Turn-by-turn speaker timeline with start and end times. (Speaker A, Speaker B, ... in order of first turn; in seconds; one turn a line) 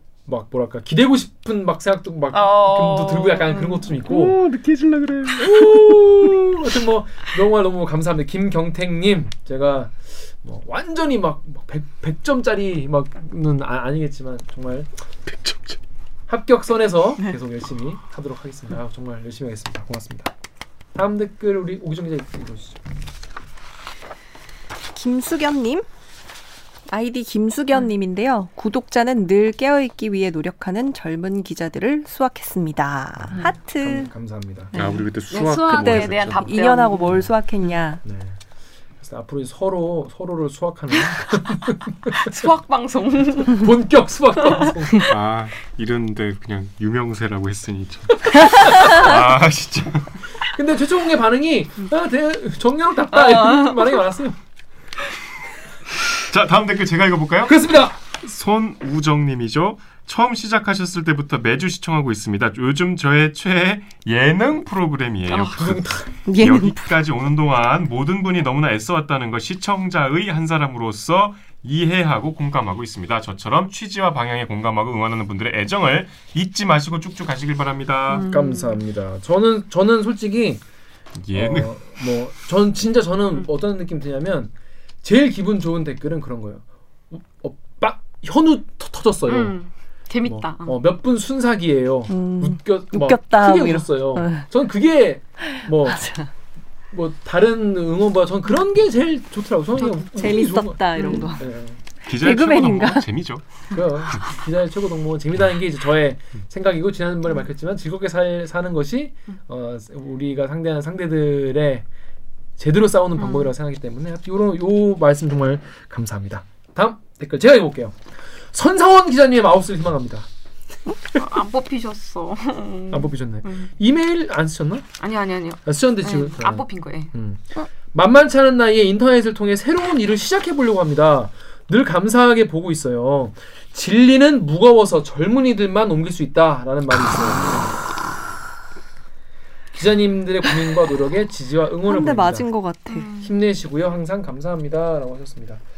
Speaker A: 0.2-4.4
Speaker B: 2.3-4.0
Speaker C: 4.1-6.5
Speaker A: 5.4-14.9
Speaker C: 15.2-15.8
Speaker A: 16.3-20.3
Speaker A: 20.9-22.8
Speaker D: 24.9-25.9
Speaker D: 26.9-34.1
Speaker A: 33.4-34.7
Speaker D: 34.7-38.0
Speaker C: 34.7-36.5
Speaker B: 35.3-37.3
Speaker A: 38.0-38.4
Speaker A: 39.0-42.4
Speaker B: 42.2-43.6
Speaker A: 43.5-45.1
Speaker C: 45.0-50.2
Speaker A: 48.4-49.0
Speaker A: 50.5-54.4
Speaker B: 53.1-54.0
Speaker C: 56.3-78.3
Speaker A: 57.5-57.9
Speaker A: 65.3-66.1
Speaker D: 66.2-66.8
Speaker B: 78.1-78.8
Speaker A: 78.1-80.6
Speaker C: 81.1-81.8
Speaker A: 81.3-84.5
Speaker A: 85.0-89.5
Speaker B: 89.3-90.8
Speaker A: 90.2-96.0
Speaker D: 92.1-94.5
Speaker D: 95.9-96.3
Speaker A: 96.9-101.8
Speaker B: 99.8-100.1
Speaker D: 100.2-101.5
Speaker B: 101.0-101.2
Speaker D: 102.0-103.0
Speaker C: 102.0-104.2
Speaker A: 103.7-111.8
Speaker A: 112.6-118.0
Speaker B: 113.2-113.5
Speaker A: 118.5-120.3
Speaker B: 121.2-123.7
Speaker A: 122.9-124.8
Speaker B: 125.0-127.1
Speaker A: 125.7-137.7
Speaker A: 139.7-142.5
Speaker D: 141.8-143.1
Speaker B: 142.9-143.3
Speaker A: 143.2-145.6